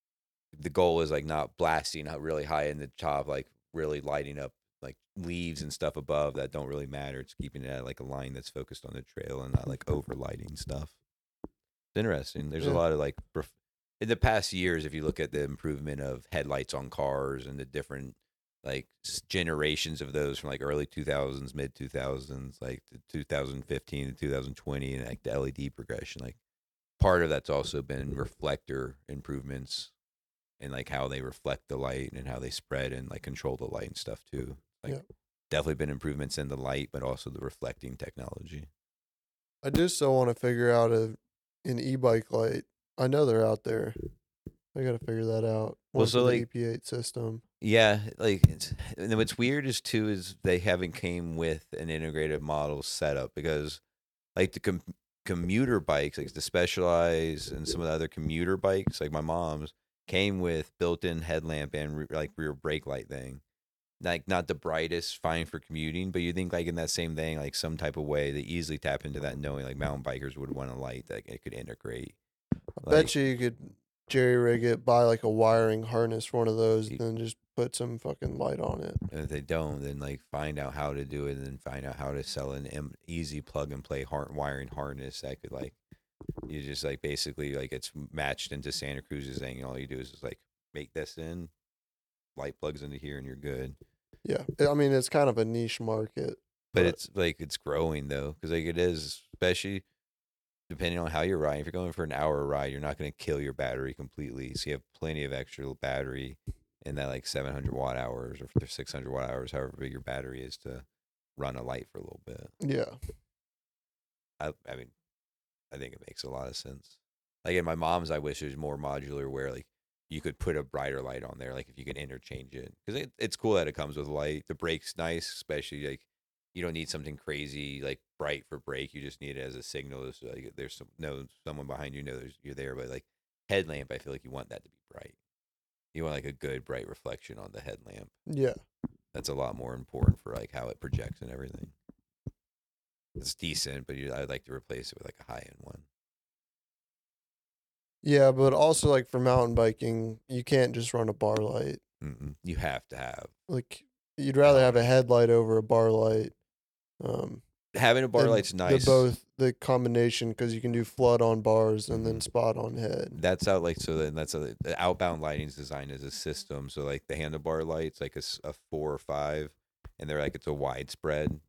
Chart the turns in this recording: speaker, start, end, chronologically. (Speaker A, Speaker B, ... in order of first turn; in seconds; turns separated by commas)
Speaker A: 0.6-11.0, Speaker A: 11.9-26.4, Speaker A: 27.0-29.9, Speaker A: 30.6-35.0, Speaker A: 35.5-38.7, Speaker B: 39.6-44.0, Speaker B: 44.8-47.4, Speaker A: 46.0-46.5, Speaker A: 47.6-53.8, Speaker A: 54.4-63.4, Speaker A: 64.0-72.2, Speaker A: 72.8-73.1, Speaker B: 72.8-79.0, Speaker A: 79.1-85.8, Speaker A: 86.5-91.5, Speaker A: 92.4-93.8, Speaker B: 94.2-97.0, Speaker A: 96.7-99.8, Speaker A: 100.7-110.8, Speaker A: 111.4-112.5, Speaker B: 112.6-113.0, Speaker A: 114.4-114.9, Speaker A: 115.7-135.2, Speaker A: 135.9-138.1, Speaker B: 138.3-138.6, Speaker A: 139.1-141.7, Speaker A: 143.2-145.9, Speaker B: 148.0-151.8, Speaker A: 152.0-153.3, Speaker B: 153.5-156.3, Speaker A: 154.5-154.8, Speaker B: 157.0-157.4, Speaker A: 157.8-159.1, Speaker B: 158.2-163.2, Speaker A: 161.9-162.2, Speaker A: 163.2-171.4